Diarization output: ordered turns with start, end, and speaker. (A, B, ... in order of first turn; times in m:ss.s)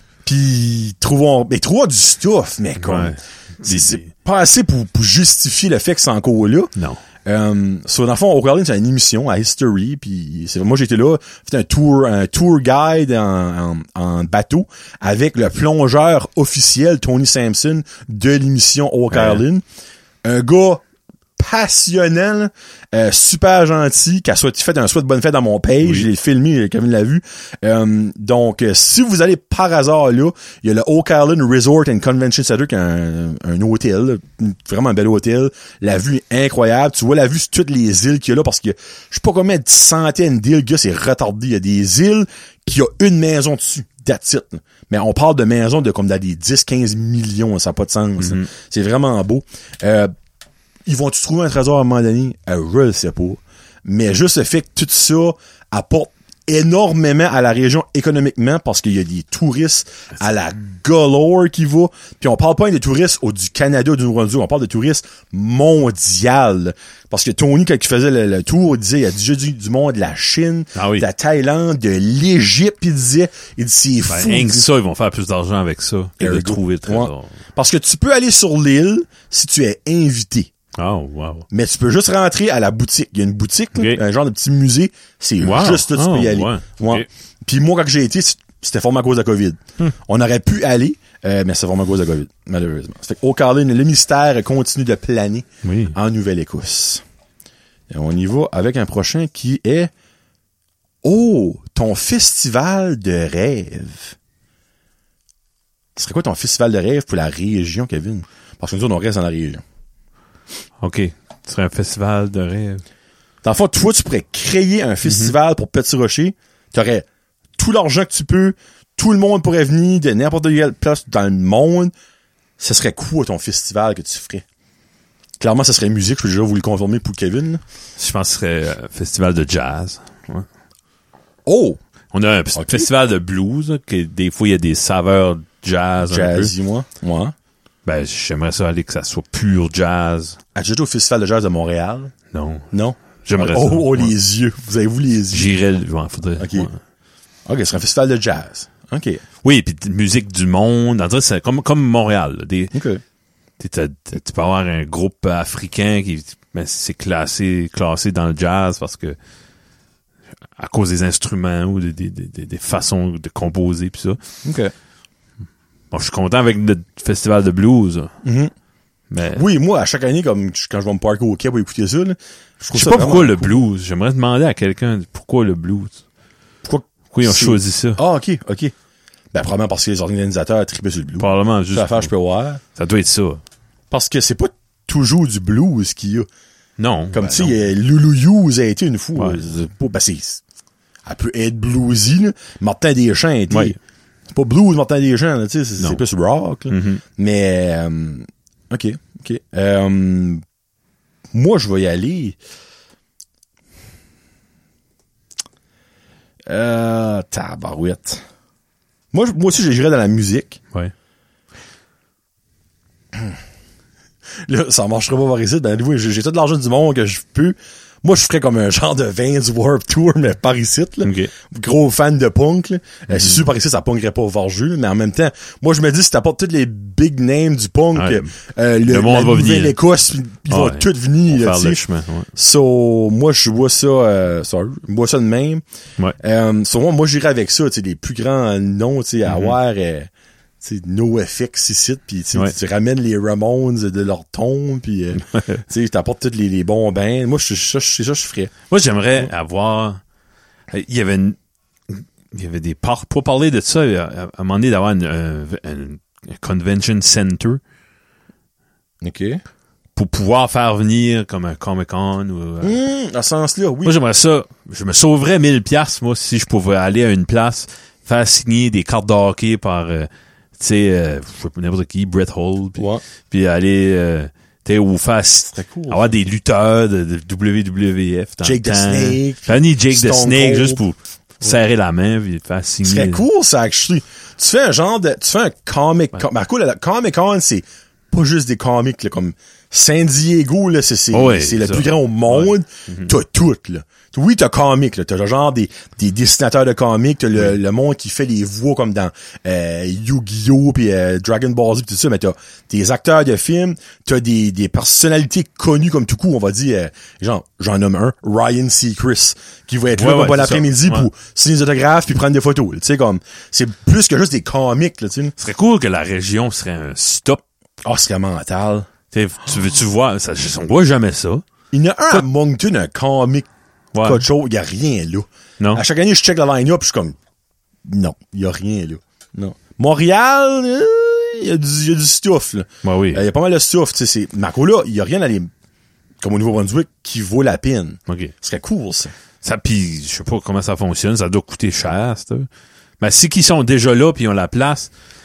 0:00.2-0:06.7 A
0:02.8-0:04.0 B
0:06.8-0:07.0 B
0:07.2-0:19.6 A
0:19.1-0:19.4 B
0:20.2-0:20.8 A
0:21.4-0:50.1 A
0:25.8-0:26.1 B
0:48.2-0:48.5 B
0:50.9-1:14.7 A
1:10.8-1:11.1 B
1:14.1-1:17.3 B
1:16.2-1:20.5 A
1:20.8-1:21.5 B
1:21.5-1:37.0 A
1:23.8-1:24.0 B
1:25.4-1:27.1 B
1:35.6-1:36.0 B
1:37.9-1:39.9 A
1:41.0-1:44.2 A
1:46.0-1:49.6 A
1:50.8-1:52.8 B
1:53.4-1:57.1 A
1:55.0-1:55.3 B
1:57.6-2:01.9 A
2:02.6-2:04.4 A
2:05.4-2:07.6 A
2:08.0-2:10.5 B
2:11.5-2:11.8 A
2:12.1-2:16.5 B
2:12.5-2:12.9 A
2:16.0-2:17.3 A
2:17.8-2:20.4 B
2:20.6-2:22.1 A
2:22.3-2:22.7 B
2:22.7-2:25.5 A
2:23.2-2:24.1 B
2:25.3-2:26.8 B
2:26.4-2:26.7 A
2:27.5-2:29.2 A
2:29.4-2:32.8 B
2:32.7-2:33.0 A
2:33.6-2:39.2 B
2:40.6-2:44.2 B
2:44.4-2:44.7 A
2:45.9-2:48.1 B
2:48.2-2:48.5 A
2:49.1-2:49.4 B
2:49.3-2:53.6 A
2:52.7-2:56.0 B
2:56.6-2:58.7 A
2:57.1-2:58.0 B
2:59.3-3:02.6 A
3:01.2-3:02.1 B
3:02.8-3:03.4 B
3:03.9-3:06.3 A
3:06.8-3:07.6 B
3:07.1-3:10.4 A
3:09.2-3:09.4 B
3:11.1-3:13.8 A
3:13.5-3:13.8 B
3:14.3-3:20.4 A
3:16.7-3:17.0 B
3:21.3-3:22.4 A
3:26.5-3:28.2 A
3:29.1-3:30.6 A
3:34.5-3:51.8 A
3:41.0-3:41.3 B
3:43.1-3:43.4 B
3:48.0-3:48.3 B
3:48.9-3:49.8 B
3:50.5-3:52.3 B
3:52.4-3:55.6 A
3:56.2-4:00.1 A
3:59.3-3:59.6 B
4:00.6-4:08.5 A
4:05.3-4:05.6 B
4:08.7-4:10.0 B
4:10.7-4:11.4 B
4:11.9-4:17.6 B
4:19.0-4:19.4 A
4:20.0-4:22.8 B
4:22.6-4:24.0 A
4:23.8-4:43.2 B
4:32.8-4:33.0 A
4:35.5-4:36.2 A
4:38.4-4:40.8 A
4:42.8-5:15.4 A
4:51.1-4:53.1 B
5:10.0-5:11.1 B
5:15.4-5:17.4 B
5:17.8-5:18.9 A
5:19.1-5:21.4 B
5:21.7-5:23.5 A
5:23.9-5:24.2 B
5:24.0-5:27.2 A
5:27.8-5:35.5 A
5:32.8-5:33.2 B
5:36.2-5:39.1 A
5:38.1-5:38.3 B
5:39.4-5:42.5 B
5:43.0-5:44.9 B